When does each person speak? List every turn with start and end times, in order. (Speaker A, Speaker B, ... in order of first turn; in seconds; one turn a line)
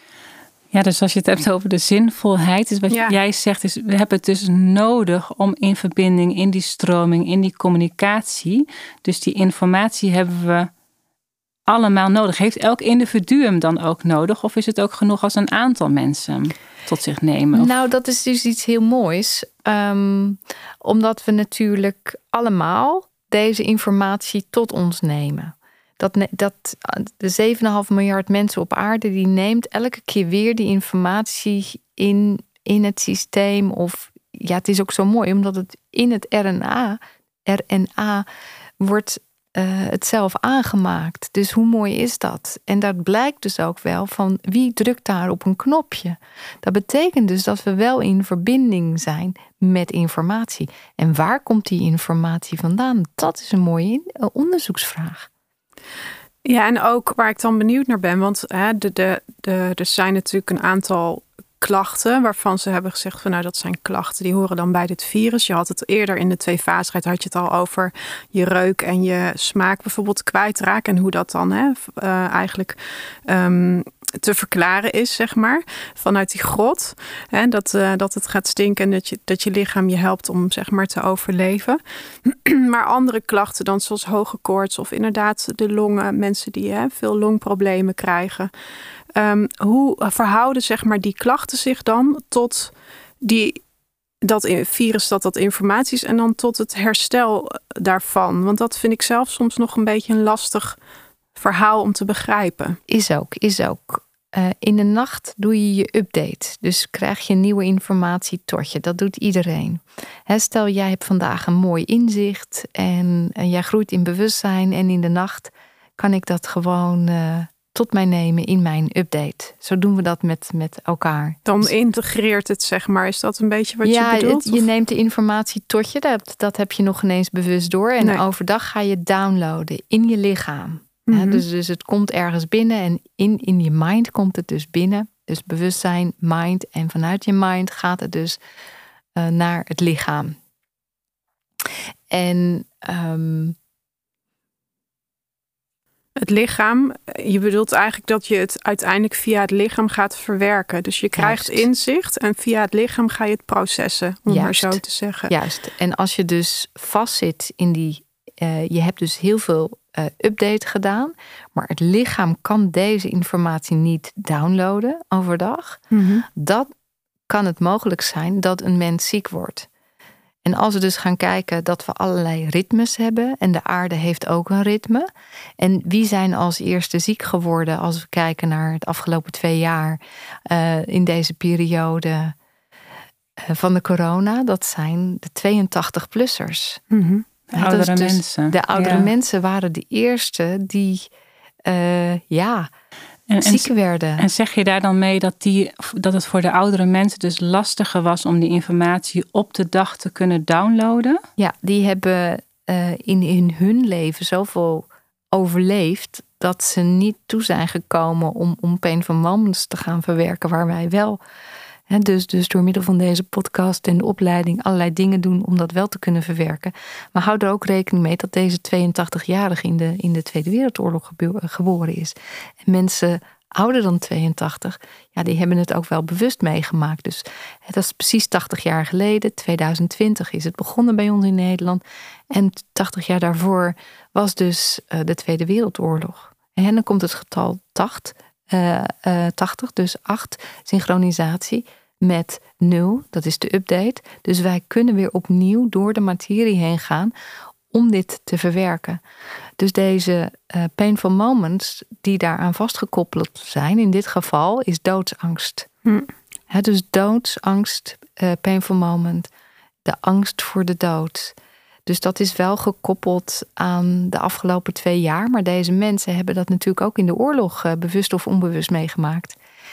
Speaker A: 0.7-10.7
Speaker A: 11.7-17.7
Speaker B: 17.5-38.3
Speaker B: 38.8-55.3
Speaker C: 56.5-88.5
Speaker C: 89.2-93.6
Speaker C: 94.2-100.8
Speaker C: 101.4-102.8
Speaker B: 102.9-121.7
Speaker C: 121.5-124.6
Speaker B: 123.8-138.4
Speaker C: 131.1-131.4
Speaker B: 139.2-140.4
Speaker B: 142.1-143.6
Speaker C: 146.2-155.3
Speaker B: 151.2-151.7
Speaker B: 154.3-165.8
Speaker C: 165.9-166.3
Speaker B: 166.3-166.7
Speaker B: 167.3-169.7
Speaker B: 170.4-175.1
Speaker B: 175.6-182.3
Speaker B: 183.4-186.8
Speaker C: 186.9-187.3
Speaker A: 187.5-189.1
Speaker B: 187.6-191.1
Speaker B: 191.7-192.7
Speaker A: 193.3-201.2
Speaker B: 193.4-194.3
Speaker B: 201.4-211.2
Speaker B: 211.9-247.1
Speaker B: 247.7-249.0
Speaker B: 249.6-255.7
Speaker B: 256.5-259.3
Speaker B: 259.9-269.4